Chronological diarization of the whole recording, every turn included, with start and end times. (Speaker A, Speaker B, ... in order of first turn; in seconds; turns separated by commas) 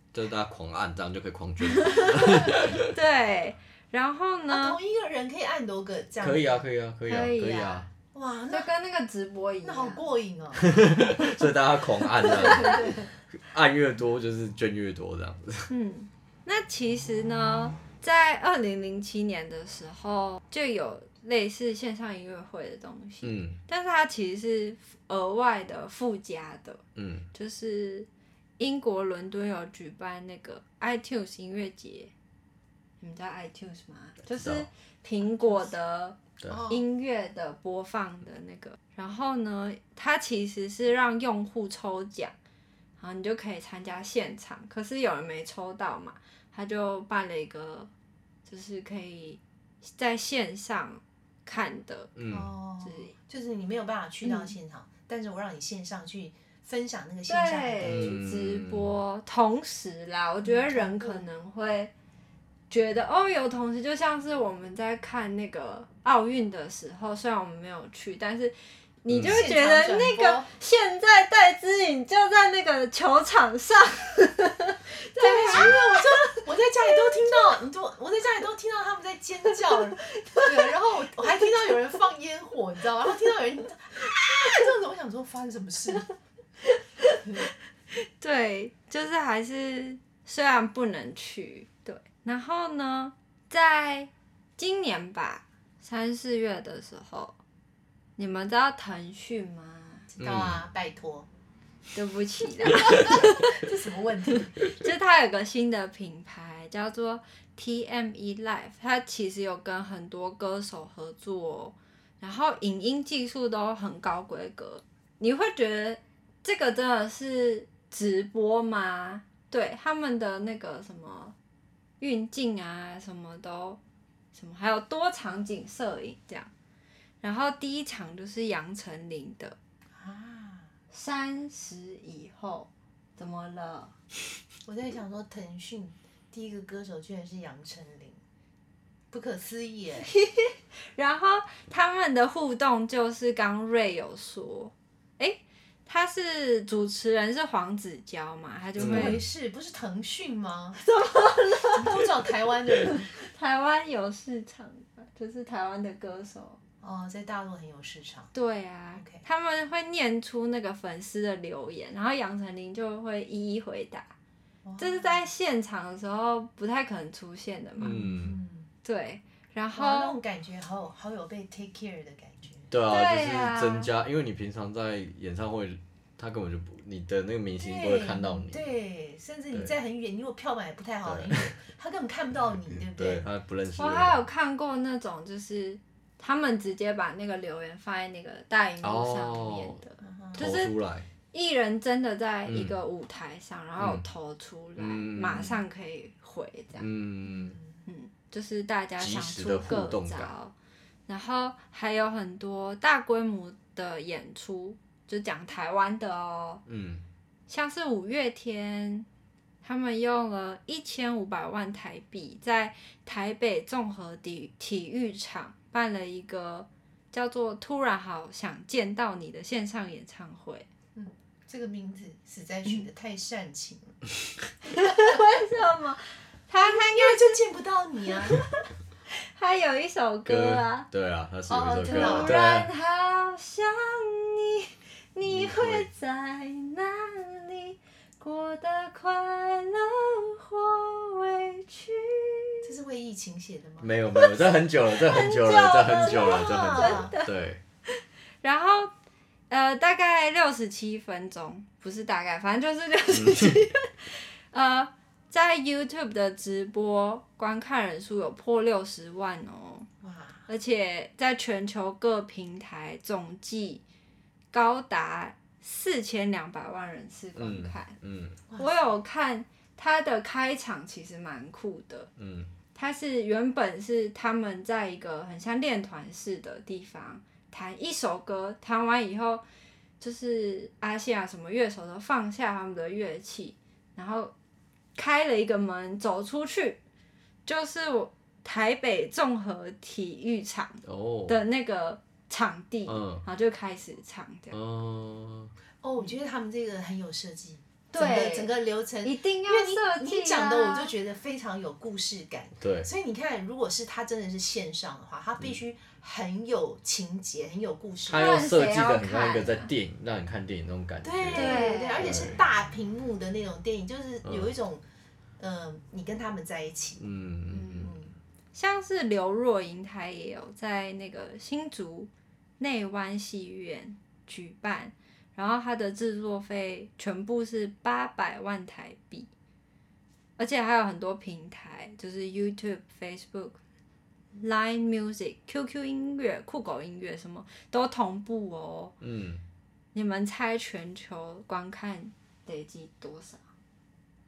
Speaker A: 0.1-2.9, Speaker B: 1.7-4.8, Speaker C: 4.5-6.7, Speaker A: 6.2-7.9, Speaker B: 7.1-7.9, Speaker C: 8.1-8.7, Speaker B: 8.5-10.0, Speaker C: 9.6-10.7, Speaker A: 10.6-15.7, Speaker C: 12.2-13.1, Speaker B: 12.2-12.8, Speaker B: 15.7-28.1, Speaker A: 23.2-23.6, Speaker A: 27.0-27.3, Speaker B: 28.6-32.1, Speaker B: 33.0-42.3, Speaker A: 34.4-34.7, Speaker C: 36.5-36.8, Speaker B: 43.0-47.9, Speaker B: 48.5-52.1, Speaker A: 52.2-52.5, Speaker C: 52.3-58.2, Speaker B: 52.8-53.1, Speaker B: 54.2-54.5, Speaker B: 57.3-61.9, Speaker A: 57.8-58.9, Speaker C: 60.4-61.3, Speaker B: 62.7-76.3, Speaker A: 69.1-69.4, Speaker C: 69.2-70.5, Speaker C: 75.2-86.1, Speaker B: 80.2-80.4, Speaker B: 87.9-97.4, Speaker B: 98.2-100.1, Speaker C: 100.1-101.3, Speaker A: 100.2-100.6, Speaker B: 101.9-103.6, Speaker C: 102.9-104.6, Speaker B: 104.7-121.3, Speaker B: 122.0-123.8, Speaker B: 124.3-126.5, Speaker B: 127.2-129.6, Speaker C: 130.0-130.7, Speaker B: 130.9-133.9, Speaker C: 134.7-138.2, Speaker C: 139.1-140.1, Speaker B: 140.1-149.2, Speaker A: 148.8-149.2, Speaker C: 148.8-150.8, Speaker B: 150.8-152.0, Speaker C: 151.7-153.1, Speaker B: 153.1-156.6, Speaker C: 156.8-158.3, Speaker B: 158.3-164.1, Speaker C: 158.9-159.2, Speaker C: 164.6-165.2, Speaker B: 164.8-168.1, Speaker A: 167.8-168.4, Speaker C: 167.9-168.7, Speaker B: 168.8-170.2, Speaker C: 169.8-172.7, Speaker A: 172.7-178.7, Speaker B: 172.9-173.9, Speaker C: 177.6-183.2, Speaker A: 181.0-181.5, Speaker A: 183.0-184.2, Speaker B: 183.8-190.7, Speaker A: 188.8-189.8, Speaker C: 190.0-190.5, Speaker A: 190.4-191.1, Speaker B: 191.3-196.9, Speaker A: 192.5-192.8, Speaker A: 193.8-194.1, Speaker A: 194.8-195.6, Speaker A: 196.8-197.6, Speaker C: 197.3-197.8, Speaker B: 197.9-200.5, Speaker A: 199.0-200.3, Speaker B: 201.1-206.6, Speaker A: 206.7-207.0, Speaker B: 207.5-209.1, Speaker B: 209.6-220.7, Speaker C: 220.9-224.0, Speaker B: 224.7-227.4, Speaker C: 226.6-228.5, Speaker B: 229.1-230.9, Speaker A: 230.3-232.7, Speaker C: 231.5-232.4, Speaker B: 231.9-242.7, Speaker A: 235.2-235.9, Speaker C: 242.6-243.9, Speaker A: 243.8-247.6, Speaker B: 244.2-247.3, Speaker C: 246.0-247.1, Speaker B: 247.9-248.9, Speaker B: 249.5-259.9, Speaker A: 253.1-253.6, Speaker C: 260.0-260.5, Speaker B: 260.5-263.8, Speaker B: 264.5-267.9, Speaker A: 267.4-268.4, Speaker C: 268.5-268.8, Speaker B: 268.6-272.1, Speaker A: 272.2-272.5, Speaker B: 272.8-279.4, Speaker B: 280.0-284.3, Speaker B: 285.0-286.8, Speaker B: 287.5-294.6, Speaker A: 290.8-291.4, Speaker A: 292.9-293.2, Speaker A: 294.5-295.5, Speaker C: 295.8-308.4, Speaker B: 297.9-300.9, Speaker A: 302.6-302.9, Speaker A: 308.1-312.4, Speaker B: 308.1-309.7, Speaker C: 311.0-314.8, Speaker B: 311.3-312.2, Speaker A: 314.2-314.5, Speaker C: 315.4-317.0, Speaker A: 317.0-317.9, Speaker B: 317.5-317.9, Speaker C: 317.6-318.1, Speaker B: 318.5-329.3, Speaker B: 330.4-333.6, Speaker B: 334.4-338.9, Speaker A: 339.0-339.4, Speaker B: 339.9-343.4